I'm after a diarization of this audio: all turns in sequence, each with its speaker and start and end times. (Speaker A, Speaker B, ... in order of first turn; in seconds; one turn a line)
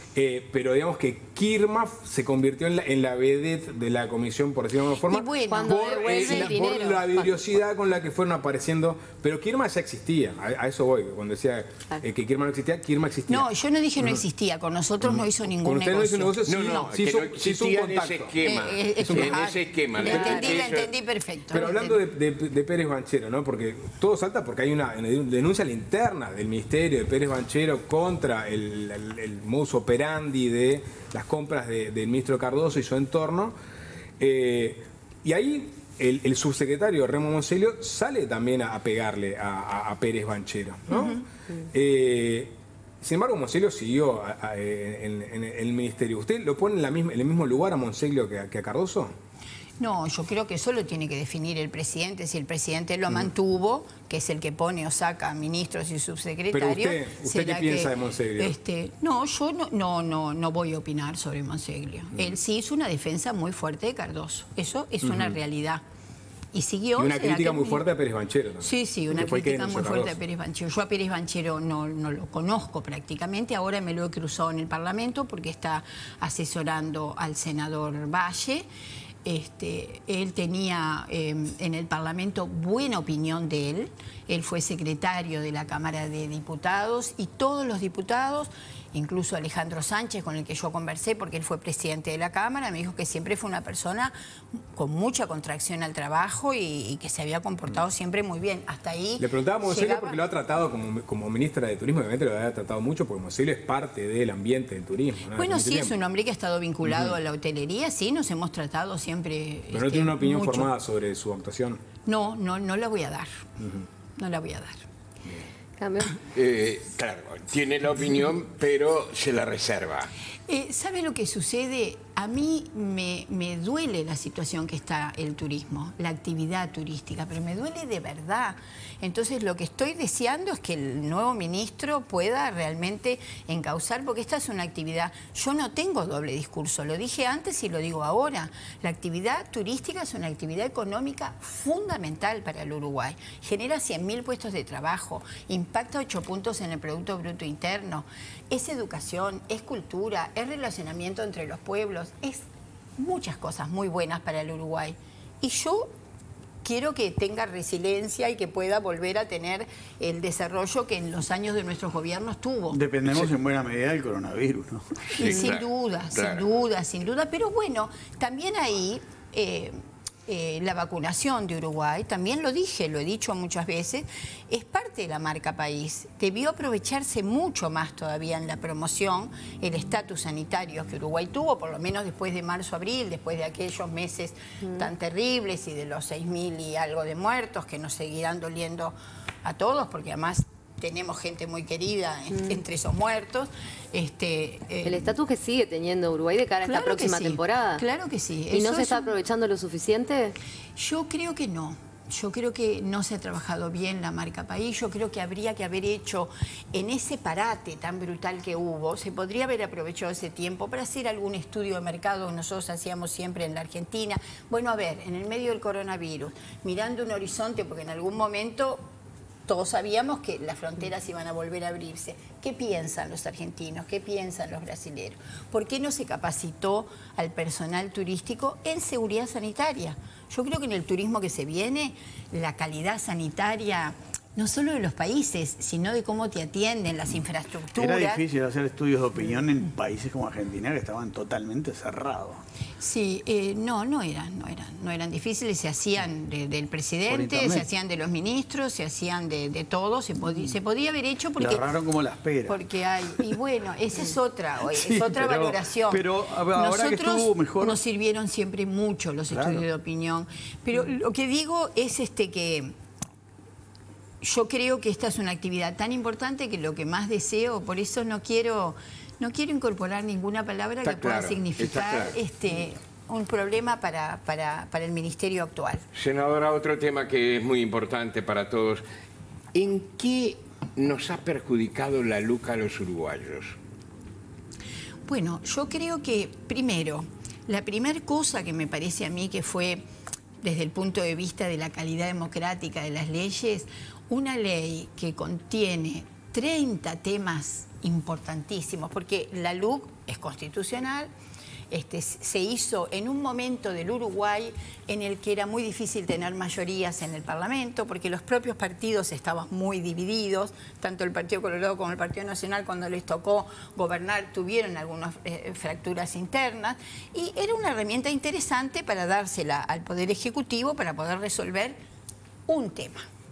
Speaker A: 0.1-13.5
Speaker B: 5.1-6.6
Speaker C: 5.5-7.4
Speaker B: 13.3-16.9
Speaker A: 15.1-18.4
Speaker D: 16.5-20.9
Speaker B: 18.4-22.0
Speaker A: 19.0-19.4
Speaker A: 20.0-20.8
Speaker A: 21.5-33.5
Speaker A: 34.2-49.1
Speaker B: 40.9-41.2
Speaker B: 49.8-65.8
Speaker A: 56.5-58.5
Speaker A: 65.0-65.4
Speaker B: 66.5-67.9
Speaker A: 67.0-70.2
Speaker B: 68.6-78.7
Speaker B: 79.2-100.2
Speaker A: 99.2-106.0
Speaker B: 105.3-110.7
Speaker A: 106.9-107.1
Speaker A: 109.7-111.8
Speaker B: 112.1-113.5
Speaker A: 113.6-113.9
Speaker B: 114.2-114.8
Speaker C: 115.8-116.2
Speaker D: 116.3-120.1
Speaker B: 120.5-152.5
Speaker B: 153.0-155.9
Speaker B: 156.6-162.8
Speaker E: 162.7-165.1
Speaker B: 165.1-169.8
Speaker D: 165.2-166.4
Speaker B: 170.3-195.2
Speaker C: 194.8-197.8
Speaker B: 196.6-199.2
Speaker C: 198.5-200.4
Speaker B: 200.8-218.9
Speaker B: 219.5-238.2
Speaker E: 237.8-242.4
Speaker B: 242.8-251.7
Speaker E: 247.1-247.7
Speaker E: 251.4-252.6
Speaker B: 252.5-262.7
Speaker E: 254.7-257.8
Speaker E: 259.3-259.7
Speaker B: 264.2-275.9
Speaker D: 270.8-272.2
Speaker D: 275.9-278.8
Speaker D: 279.5-283.6
Speaker B: 285.1-289.8
Speaker B: 290.4-301.1
Speaker B: 301.7-321.8
Speaker B: 322.5-323.1